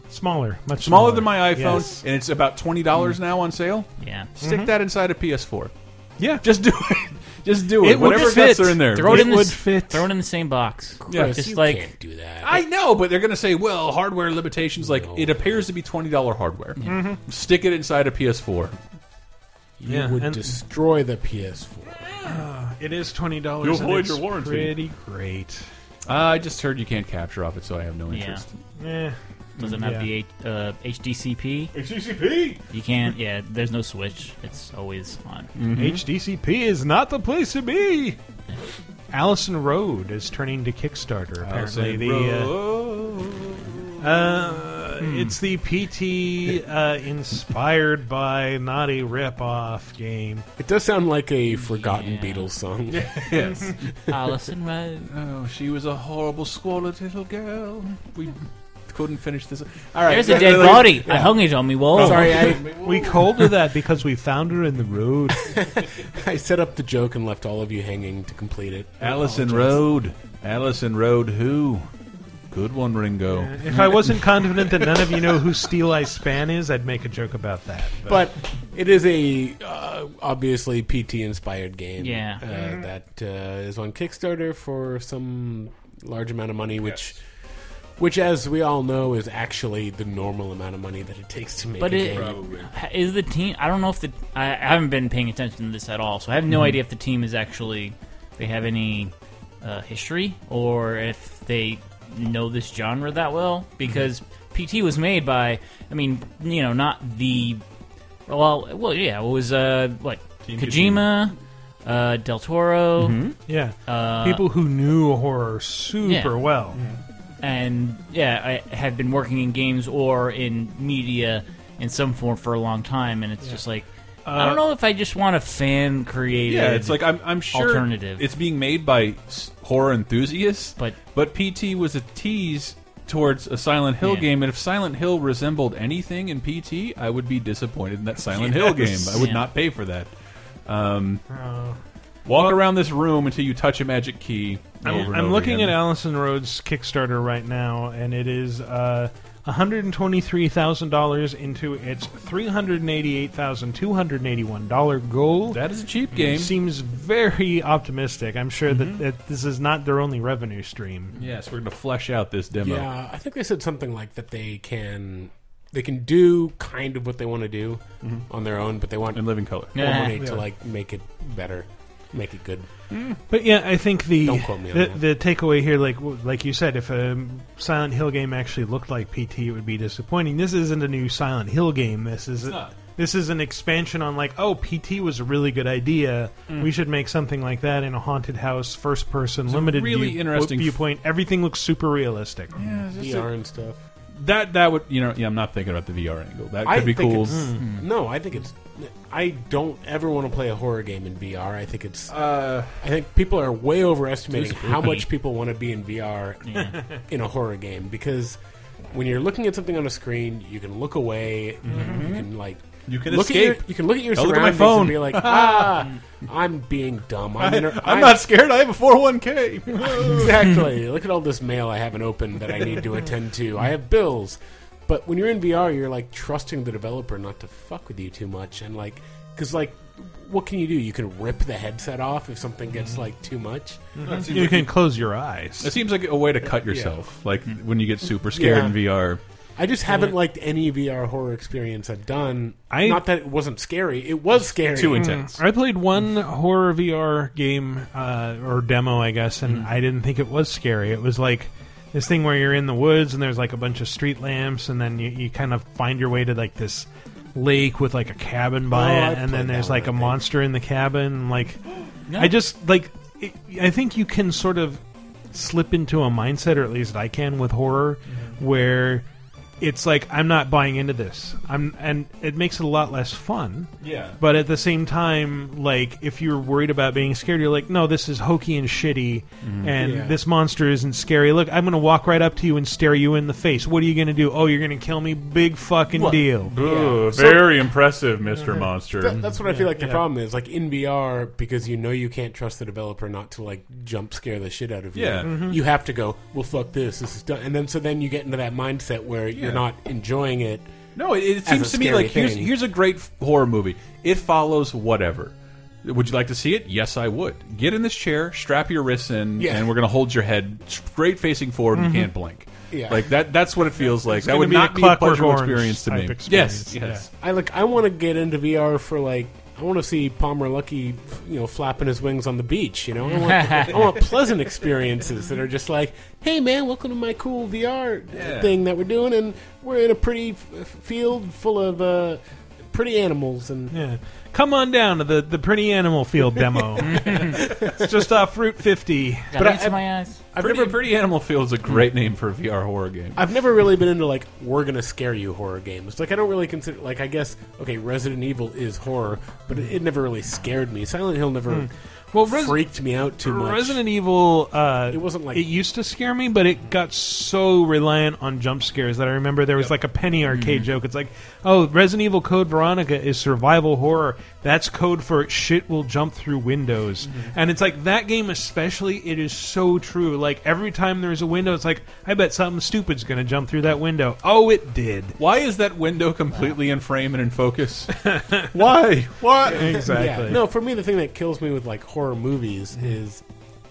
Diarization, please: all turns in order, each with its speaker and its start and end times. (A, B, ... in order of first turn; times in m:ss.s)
0:00.1-0:02.0 A
0:00.8-0:05.7 B
0:04.0-0:04.3 C
0:04.4-0:04.7 A
0:06.2-0:06.4 A
0:06.3-0:09.4 B
0:07.8-0:10.1 A
0:08.0-0:11.9 C
0:11.0-0:12.6 D
0:11.1-0:11.4 B
0:12.4-0:18.8 B
0:14.8-0:15.7 D
0:16.8-0:17.2 A
0:19.8-0:22.0 D
0:19.9-0:20.4 A
0:22.0-0:22.4 B
0:22.2-0:25.7 A
0:23.6-0:24.8 B
0:26.1-0:28.5 B
0:28.1-0:28.4 C
0:28.8-0:30.1 A
0:29.6-0:31.7 C
0:31.7-0:32.6 B
0:32.7-0:35.5 C
0:35.6-0:36.0 B
0:35.7-0:38.2 A
0:39.1-0:42.5 A
0:41.4-0:44.3 B
0:44.0-0:50.5 A
0:45.0-0:45.4 C
0:50.6-0:53.3 D
0:51.5-0:52.5 C
0:52.9-0:53.8 B
0:54.1-0:55.1 C
0:55.1-0:58.4 B
0:58.9-1:01.2 B
1:00.0-1:02.8 D
1:00.1-1:02.4 C
1:01.9-1:03.6 B
1:02.8-1:05.5 A
1:05.4-1:09.8 D
1:09.0-1:11.9 B
1:12.5-1:13.9 B
1:13.3-1:18.1 A
1:18.1-1:27.2 D
1:22.0-1:22.4 C
1:28.0-1:32.4 D
1:31.8-1:47.6 C
1:32.1-1:32.7 B
1:48.3-1:53.2 C
1:50.4-1:51.1 B
1:53.0-1:53.4 B
1:53.5-1:56.8 A
1:53.9-1:54.4 C
1:56.0-1:56.4 C
1:56.7-1:57.0 B
1:57.4-2:08.2 C
2:04.2-2:04.6 A
2:06.5-2:20.1 B
2:14.0-2:14.3 C
2:18.4-2:19.4 C
2:20.7-2:21.2 B
2:21.3-2:21.8 A
2:22.3-2:25.8 B
2:24.8-2:35.6 A
2:35.5-2:36.5 B
2:36.2-2:41.2 A
2:38.7-2:39.0 B
2:41.2-2:42.9 B
2:42.6-2:49.2 D
2:49.1-2:49.7 B
2:49.7-2:50.2 C
2:49.7-2:52.7 D
2:50.2-2:50.4 A
2:52.9-2:53.2 B
2:53.3-3:12.6 A
2:54.2-2:55.0 D
3:02.4-3:02.7 B
3:06.5-3:06.7 B
3:09.5-3:10.8 B
3:12.6-3:13.3 B
3:12.9-3:13.8 D
3:14.2-3:17.5 B
3:16.6-3:28.4 D
3:17.3-3:17.6 A
3:17.6-3:17.9 C
3:22.1-3:22.8 B
3:24.4-3:25.0 C
3:26.5-3:26.8 C
3:28.9-3:38.2 D
3:31.6-3:32.3 B
3:32.9-3:35.9 B
3:37.4-3:40.5 B
3:40.0-3:54.0 D
3:54.0-3:55.7 A
3:54.0-3:54.7 B
3:55.6-3:59.2 B
3:56.7-3:56.9 D
3:58.3-3:58.8 D
3:59.6-4:05.1 D
4:02.7-4:03.0 A
4:04.7-4:05.4 B
4:05.0-4:21.6 A
4:18.7-4:20.2 D
4:22.1-4:22.3 C
4:22.2-4:29.0 A
4:29.6-4:46.5 A
4:33.8-4:34.2 B
4:39.4-4:39.8 B
4:39.8-4:40.2 D
4:46.0-4:49.3 B
4:46.6-4:47.6 D
4:48.4-4:48.7 A
4:49.0-5:00.7 D
4:49.4-4:50.0 A
4:55.0-4:55.5 B
4:55.2-4:55.6 A
4:59.4-4:59.6 B
5:01.0-5:17.1 B
5:01.4-5:02.5 D
5:09.4-5:09.7 D
5:11.7-5:12.1 A
5:12.7-5:13.1 D
5:14.0-5:17.0 A
5:17.1-5:33.8 D
5:23.4-5:23.7 C
5:28.1-5:28.5 B
5:33.7-5:39.5 A
5:36.8-5:37.4 C
5:39.3-5:40.2 C
5:40.3-5:40.8 D
5:40.4-5:43.2 B
5:43.2-5:53.8 D
5:51.5-5:52.6 A
5:53.2-6:15.2 A
5:54.9-5:55.5 D
6:00.3-6:00.7 C
6:07.0-6:07.3 B
6:15.2-6:19.9 B
6:18.1-6:18.4 A
6:19.5-6:20.4 A
6:19.5-6:23.2 D